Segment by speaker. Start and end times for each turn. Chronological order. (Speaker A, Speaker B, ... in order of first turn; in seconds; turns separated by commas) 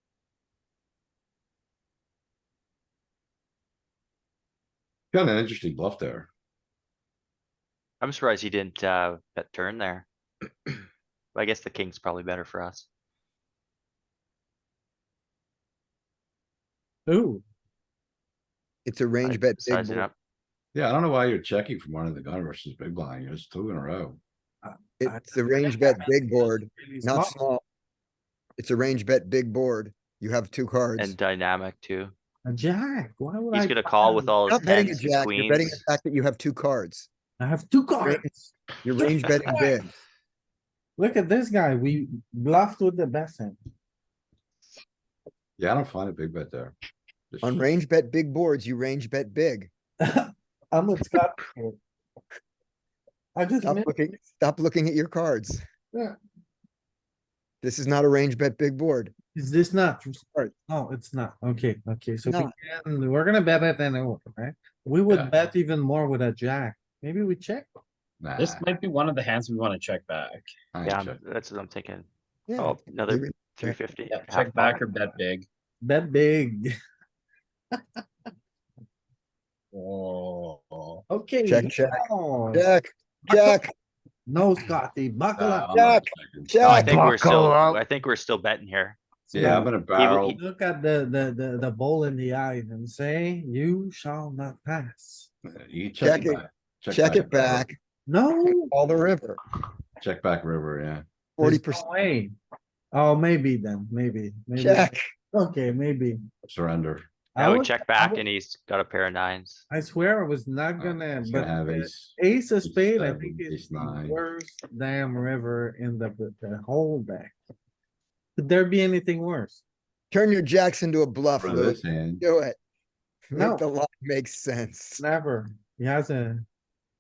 Speaker A: 5.1-6.3, Speaker B: 8.0-10.1, Speaker B: 11.3-12.9, Speaker C: 17.1-17.4, Speaker D: 18.9-20.1, Speaker B: 19.2-20.1, Speaker A: 20.7-24.2, Speaker C: 24.6-27.4, Speaker D: 25.0-27.6, Speaker D: 28.6-31.2, Speaker B: 31.0-32.1, Speaker C: 32.5-34.3, Speaker B: 33.5-35.8, Speaker D: 34.5-37.1, Speaker C: 37.4-38.5, Speaker D: 38.8-39.9, Speaker C: 39.5-39.7, Speaker C: 41.0-43.6, Speaker A: 45.6-46.8, Speaker A: 47.3-47.6, Speaker D: 47.4-49.7, Speaker C: 50.0-51.8, Speaker C: 53.4-53.9, Speaker D: 53.6-55.6, Speaker D: 57.6-59.1, Speaker C: 59.4-67.7, Speaker D: 62.3-62.5, Speaker A: 68.2-68.7, Speaker E: 68.4-70.5, Speaker A: 70.7-71.2, Speaker B: 70.8-75.1, Speaker D: 72.5-73.8, Speaker E: 74.1-75.5, Speaker C: 75.8-76.7, Speaker E: 79.7-81.0, Speaker C: 81.1-82.7, Speaker D: 81.5-83.7, Speaker C: 84.3-85.7, Speaker A: 85.4-87.0, Speaker D: 85.7-87.8, Speaker B: 86.6-89.0, Speaker C: 89.3-89.7, Speaker A: 89.3-90.4, Speaker B: 90.0-90.4, Speaker C: 90.3-95.3, Speaker A: 95.5-97.7, Speaker D: 96.0-97.8, Speaker C: 98.1-98.7, Speaker D: 98.5-99.4, Speaker A: 100.0-101.0, Speaker D: 101.4-101.9, Speaker C: 101.4-102.4, Speaker C: 102.9-106.2, Speaker D: 104.6-105.1, Speaker A: 106.5-107.1, Speaker C: 107.3-108.2, Speaker B: 107.4-109.6, Speaker C: 109.7-117.3, Speaker A: 110.8-114.2, Speaker C: 118.4-119.6, Speaker D: 120.1-122.6, Speaker A: 121.4-122.2, Speaker D: 123.3-125.0, Speaker C: 123.3-123.7, Speaker C: 125.0-126.5